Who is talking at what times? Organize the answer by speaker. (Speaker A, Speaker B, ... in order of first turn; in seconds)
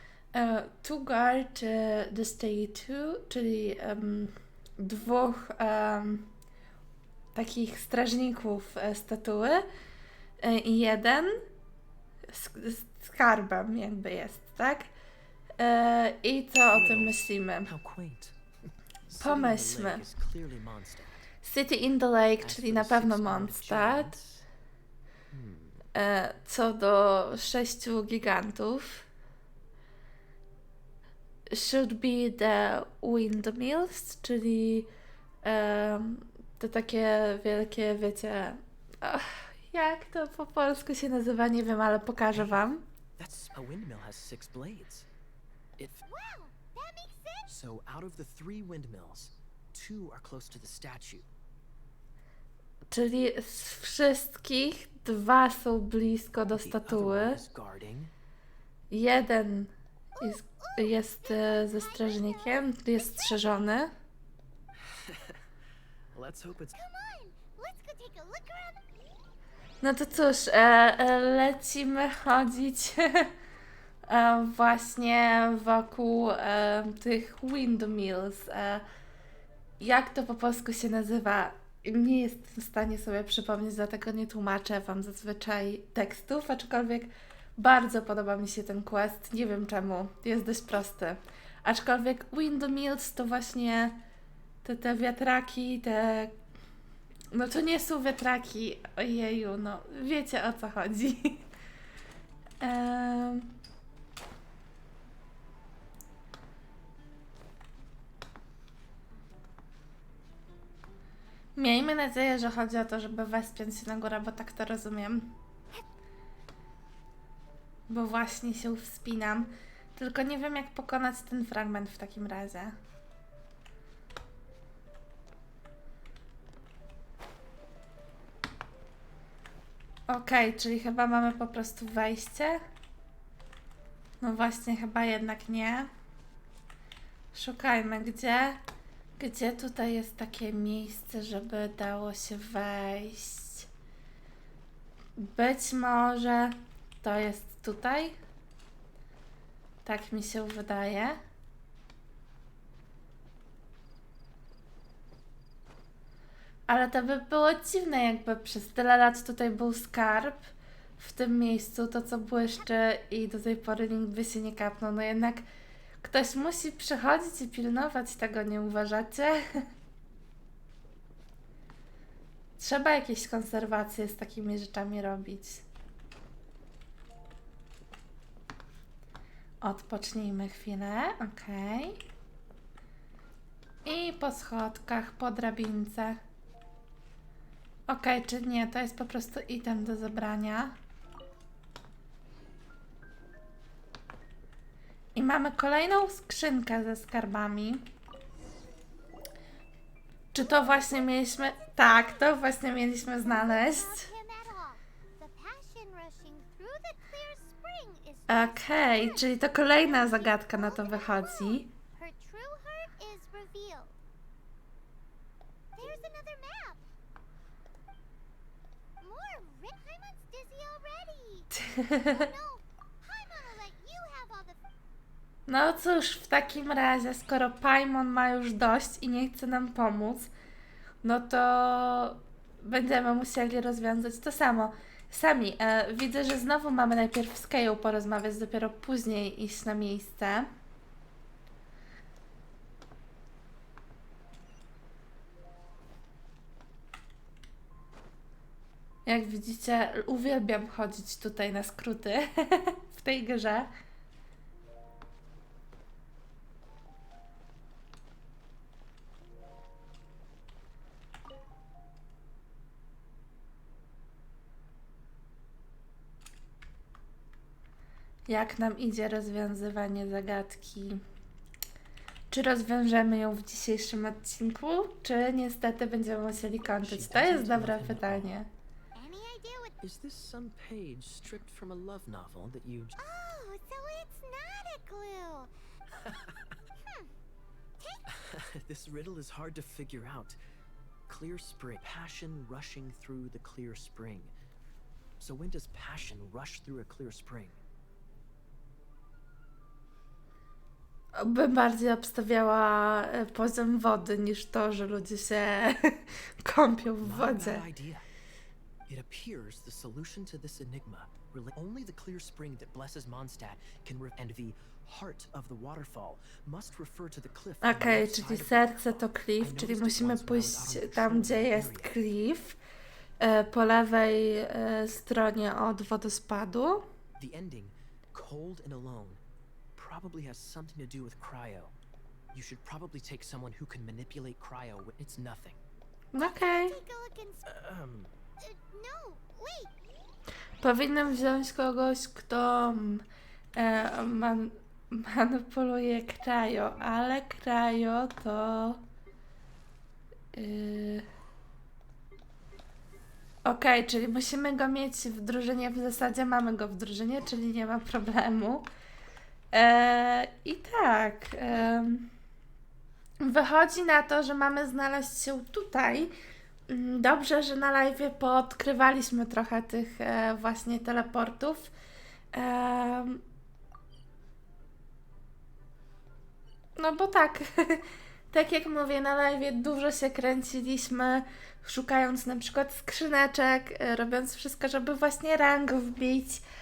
Speaker A: 0.3-6.3, 7.3-9.7, 10.4-11.4, 12.3-14.9, 15.6-17.7, 19.2-20.0, 21.4-24.1, 25.9-29.0, 31.5-34.9, 35.4-42.8, 52.9-57.4, 58.9-63.9, 69.8-73.3, 74.1-78.8, 79.8-94.0, 94.6-96.3, 97.3-101.4, 102.6-103.5, 111.5-115.3, 117.9-122.7, 130.1-132.6, 134.2-135.9, 137.3-138.6, 139.2-143.7, 145.2-148.2, 149.8-151.2, 156.7-165.4, 166.0-169.4, 172.6-175.6, 179.6-182.0, 183.8-186.2, 187.9-190.7, 195.2-197.8, 200.3-204.1, 208.3-211.7, 221.5-222.3, 225.5-230.3, 231.0-240.5, 249.1-253.7, 268.3-271.0, 272.3-278.5, 301.1-307.6, 317.6-322.6, 323.2-326.9, 336.1-336.7, 340.6-343.0, 343.6-348.8, 350.3-351.1, 353.4-358.7, 359.5-362.1, 363.2-366.1, 366.7-371.7, 372.3-373.2, 376.8-386.4
Speaker B: 16.7-18.4, 19.1-21.3, 22.4-24.4, 25.3-25.8, 42.3-42.6, 43.2-45.1, 45.8-46.0, 47.5-51.3, 56.4-58.1, 64.8-65.4, 66.1-66.8, 276.6-278.3, 279.8-283.0, 285.9-286.6, 288.1-290.4, 291.1-294.3, 295.2-297.6, 307.0-308.0, 308.9-321.9, 327.2-329.2, 329.7-331.7, 332.3-335.6, 337.4-338.1
Speaker C: 46.0-47.5, 60.2-63.7, 66.7-68.8, 200.3-202.4, 203.0-213.9, 215.8-216.8, 219.0-224.6, 278.9-279.8, 283.0-285.5, 287.8-288.1, 336.2-337.5, 338.4-339.7